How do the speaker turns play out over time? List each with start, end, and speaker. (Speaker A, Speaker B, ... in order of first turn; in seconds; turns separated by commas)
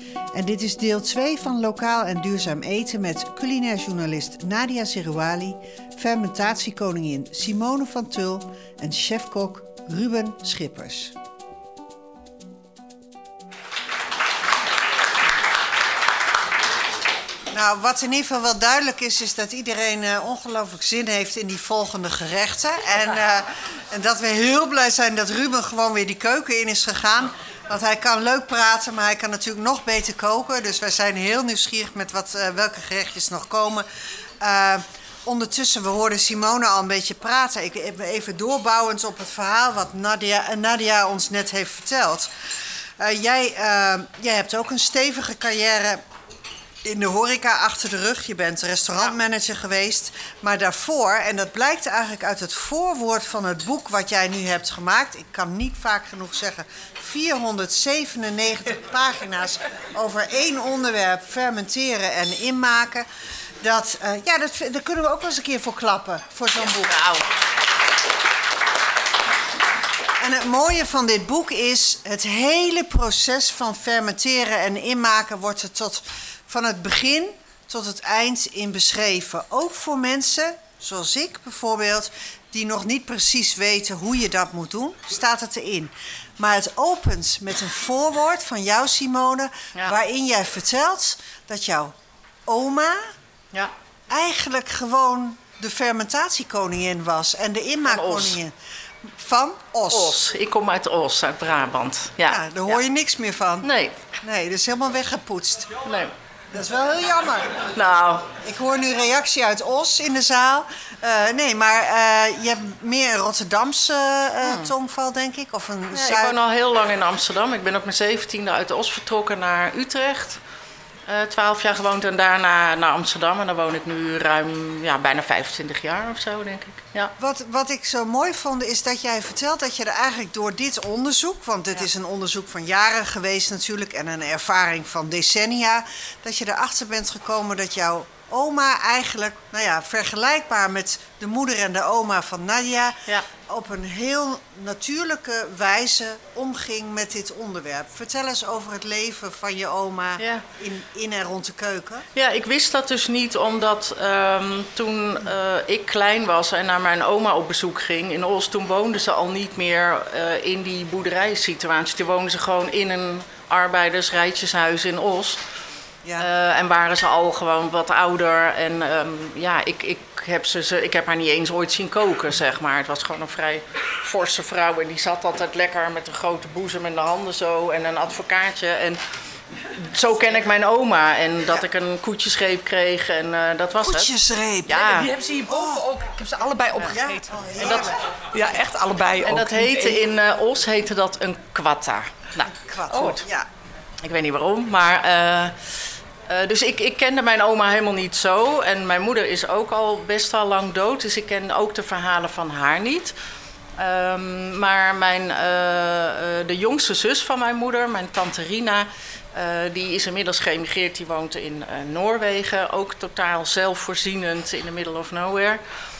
Speaker A: 0.3-11.1, Speaker A: 17.5-33.9, Speaker A: 34.4-42.3, Speaker A: 43.0-46.0, Speaker A: 46.8-63.0, Speaker A: 63.6-67.0, Speaker B: 66.7-67.3, Speaker A: 70.2-91.9, Speaker A: 92.5-93.1, Speaker A: 94.1-100.2, Speaker B: 97.8-98.4, Speaker B: 99.9-102.8, Speaker A: 102.3-105.8, Speaker B: 103.6-104.0, Speaker B: 105.8-106.1, Speaker A: 106.5-107.7, Speaker B: 107.7-108.3, Speaker A: 108.2-116.4, Speaker B: 114.4-114.7, Speaker B: 115.9-120.4, Speaker B: 121.1-127.1, Speaker A: 127.2-152.1, Speaker B: 150.2-150.4, Speaker B: 152.1-165.4, Speaker B: 166.2-179.0, Speaker B: 179.7-185.1, Speaker A: 183.8-184.9, Speaker C: 184.8-190.0, Speaker A: 185.4-185.8, Speaker A: 186.8-188.0, Speaker B: 187.6-187.9, Speaker B: 189.2-193.2, Speaker A: 192.4-193.5, Speaker B: 194.0-203.1, Speaker B: 203.8-215.6